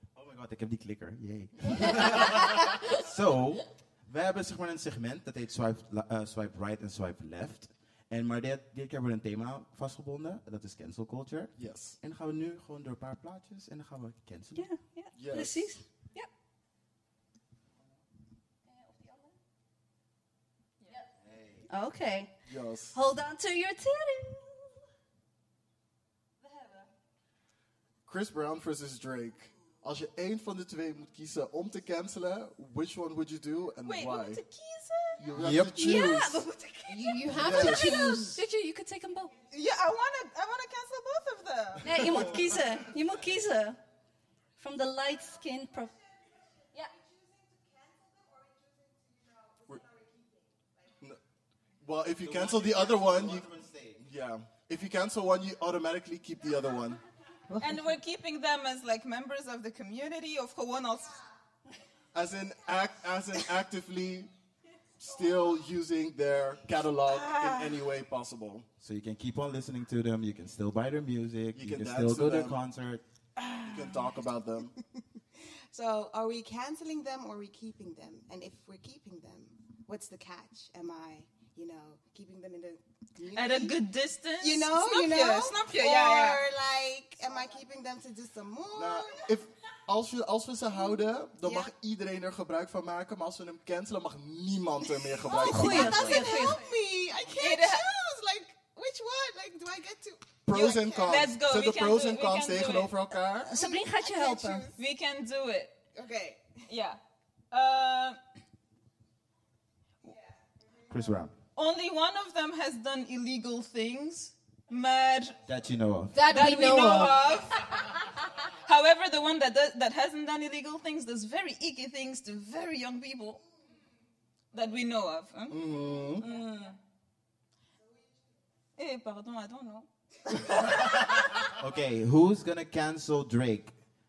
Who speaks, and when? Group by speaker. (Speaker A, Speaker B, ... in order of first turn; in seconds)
Speaker A: 0.1-14.7, 21.2-21.6, 35.4-35.9, 52.2-54.0, 68.8-73.0, 110.9-111.3, 115.5-116.2, 131.5-133.7
Speaker B: 11.6-11.9, 15.1-15.8, 22.4-23.0, 28.1-34.4, 35.2-36.4, 37.3-38.0, 42.0-42.3, 51.8-57.0, 62.1-64.3, 65.0-68.7, 71.5-72.5, 73.5-74.7, 88.7-96.3, 100.4-103.5, 125.5-126.3
Speaker C: 14.6-16.3, 18.7-19.3, 21.7-22.3, 22.9-24.7, 35.7-39.3, 41.8-43.8, 44.6-45.9, 95.4-96.6, 103.5-104.7
Speaker D: 33.8-35.2, 39.5-42.0, 57.6-61.2, 83.3-86.4, 97.3-97.8, 100.5-103.0, 104.8-105.7, 106.7-107.0, 107.5-108.2, 111.5-115.4, 116.3-123.4, 124.5-125.6, 126.2-126.8, 128.8-131.2
Speaker E: 36.9-38.4, 57.5-57.8, 116.1-117.3
Speaker F: 75.7-83.8, 84.4-89.3, 91.4-91.7, 95.1-101.2, 103.5-104.7, 105.9-106.6